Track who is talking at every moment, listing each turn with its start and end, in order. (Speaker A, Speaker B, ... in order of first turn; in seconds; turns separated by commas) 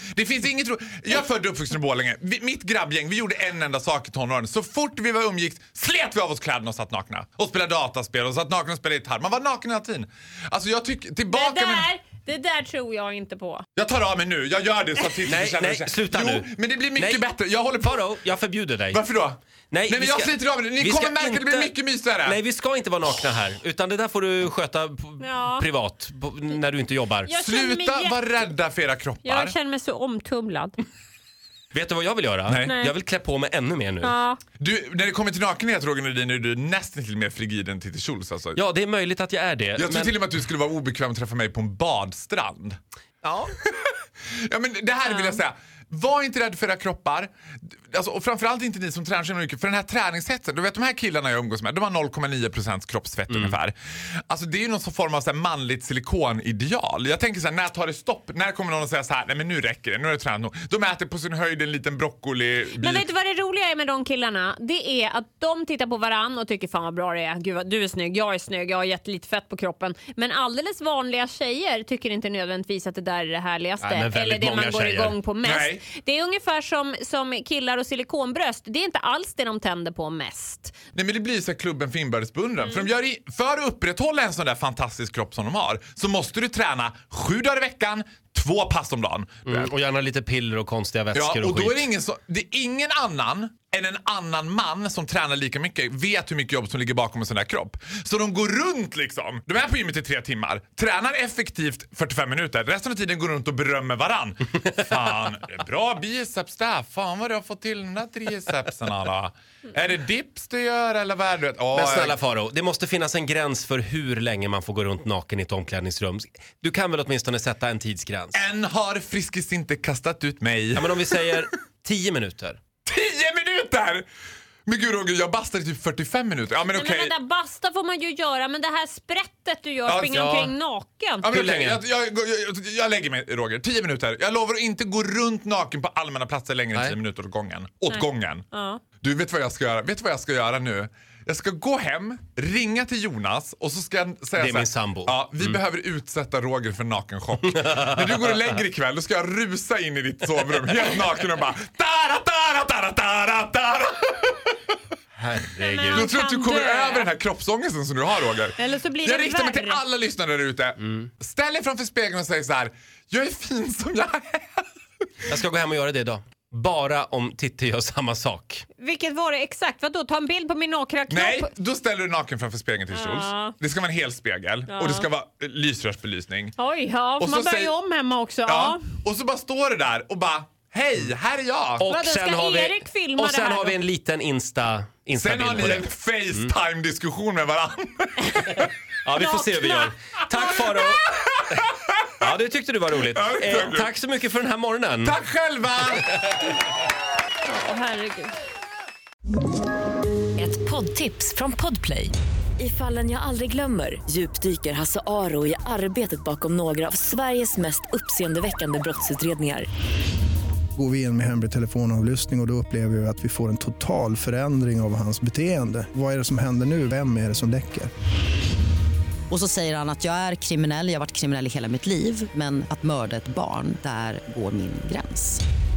Speaker A: 0.1-11.9, Speaker B: 11.3-13.6, Speaker A: 13.8-18.0, Speaker C: 15.2-17.3, Speaker C: 17.8-19.0, Speaker A: 18.9-22.4, Speaker C: 19.7-21.7, Speaker C: 22.2-27.3, Speaker B: 25.2-25.6, Speaker B: 27.2-28.2, Speaker A: 27.4-29.5, Speaker B: 29.2-30.9, Speaker C: 31.7-34.1, Speaker A: 32.5-32.8, Speaker B: 32.7-32.9, Speaker B: 34.0-34.4, Speaker A: 34.6-38.6, Speaker C: 38.5-40.1, Speaker A: 39.8-42.8, Speaker C: 43.2-43.5, Speaker A: 43.6-47.3, Speaker B: 45.0-45.4, Speaker A: 47.9-53.8, Speaker C: 53.3-53.5, Speaker A: 54.3-63.0, Speaker B: 62.8-80.8, Speaker C: 73.8-75.2, Speaker A: 75.4-75.8, Speaker A: 80.9-89.7, Speaker B: 82.6-82.9, Speaker C: 89.5-91.8, Speaker A: 91.1-112.2, Speaker C: 111.7-118.4, Speaker A: 118.3-121.0, Speaker C: 120.7-122.6, Speaker A: 122.9-124.0, Speaker A: 124.7-127.1, Speaker B: 126.7-131.2, Speaker A: 129.9-130.3, Speaker C: 130.1-130.5, Speaker A: 131.2-138.5, Speaker C: 131.3-131.8, Speaker B: 137.9-138.8, Speaker A: 139.0-154.8, Speaker C: 144.4-145.6, Speaker C: 155.2-156.1, Speaker B: 155.6-157.1, Speaker A: 155.9-164.6, Speaker B: 158.6-159.8, Speaker C: 165.3-168.7, Speaker B: 168.8-171.5, Speaker A: 171.1-176.5, Speaker B: 172.9-173.6, Speaker B: 174.7-175.1, Speaker B: 176.6-178.8, Speaker A: 177.2-177.7, Speaker A: 178.5-181.9, Speaker C: 181.8-186.5, Speaker B: 181.8-183.8, Speaker A: 185.1-188.7, Speaker C: 189.0-191.1, Speaker B: 189.2-189.9, Speaker A: 190.7-192.1, Speaker C: 192.2-195.2, Speaker A: 193.1-193.9, Speaker A: 195.1-196.1, Speaker B: 197.4-198.4, Speaker D: 200.4-209.7, Speaker E: 210.8-217.9, Speaker F: 219.3-225.4